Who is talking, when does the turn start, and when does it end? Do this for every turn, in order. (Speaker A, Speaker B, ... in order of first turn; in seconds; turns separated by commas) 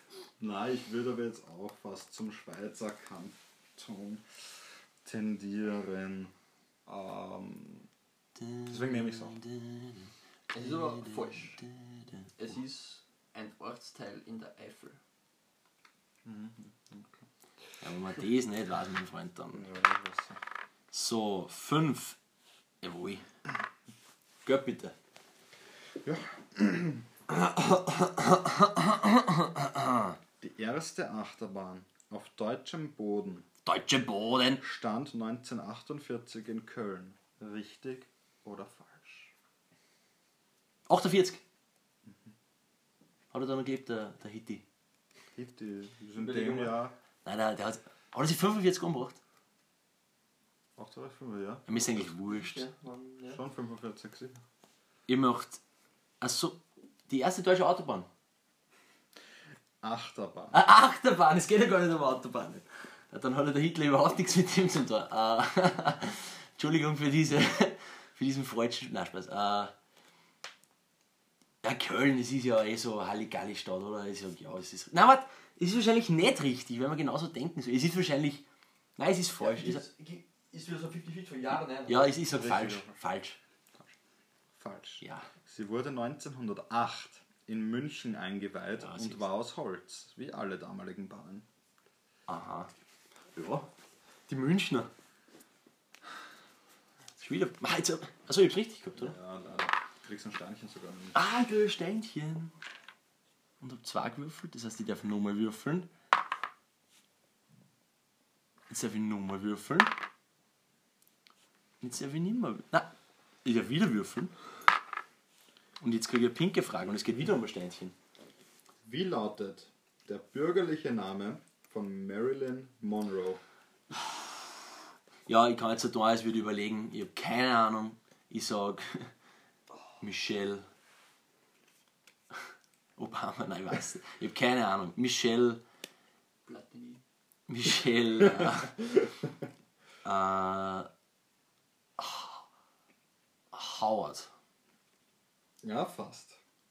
Speaker A: 0.4-4.4, Speaker A: 5.0-6.3, Speaker A: 6.9-7.9, Speaker B: 8.4-10.1, Speaker A: 8.7-9.4, Speaker C: 10.5-11.6, Speaker B: 10.9-12.3, Speaker C: 12.4-15.0, Speaker A: 16.2-17.2, Speaker B: 17.8-19.7, Speaker A: 19.5-20.4, Speaker B: 20.9-22.2, Speaker B: 22.8-23.2, Speaker B: 24.4-24.9, Speaker A: 26.0-27.1, Speaker B: 27.6-30.2, Speaker A: 30.4-33.5, Speaker B: 33.7-34.6, Speaker A: 34.6-39.3, Speaker B: 40.9-41.4, Speaker A: 42.1-42.3, Speaker B: 43.3-44.6, Speaker A: 45.3-47.0, Speaker C: 46.2-46.8, Speaker B: 47.2-49.2, Speaker A: 50.8-51.7, Speaker B: 51.7-52.6, Speaker C: 52.3-53.4, Speaker A: 53.3-54.4, Speaker B: 55.1-55.6, Speaker B: 56.2-58.1, Speaker A: 59.8-60.6, Speaker B: 60.5-69.7, Speaker B: 71.6-78.4, Speaker B: 79.0-79.8, Speaker C: 79.4-82.2, Speaker B: 81.9-83.4, Speaker A: 82.3-82.9, Speaker A: 84.6-91.5, Speaker B: 85.0-85.3, Speaker B: 88.8-89.2, Speaker B: 92.3-92.7, Speaker B: 93.3-93.7, Speaker B: 94.3-94.9, Speaker B: 97.2-99.2, Speaker A: 99.0-101.2, Speaker B: 101.1-102.5, Speaker B: 103.6-105.9, Speaker B: 108.7-110.0, Speaker B: 111.8-112.9, Speaker B: 113.5-114.3, Speaker B: 115.8-117.9, Speaker A: 118.8-123.4, Speaker B: 125.3-129.1, Speaker B: 130.0-130.7, Speaker B: 133.0-135.6, Speaker C: 136.5-137.0, Speaker B: 137.5-138.8, Speaker B: 140.0-140.9, Speaker B: 142.0-142.4, Speaker B: 143.5-144.3, Speaker A: 145.6-146.4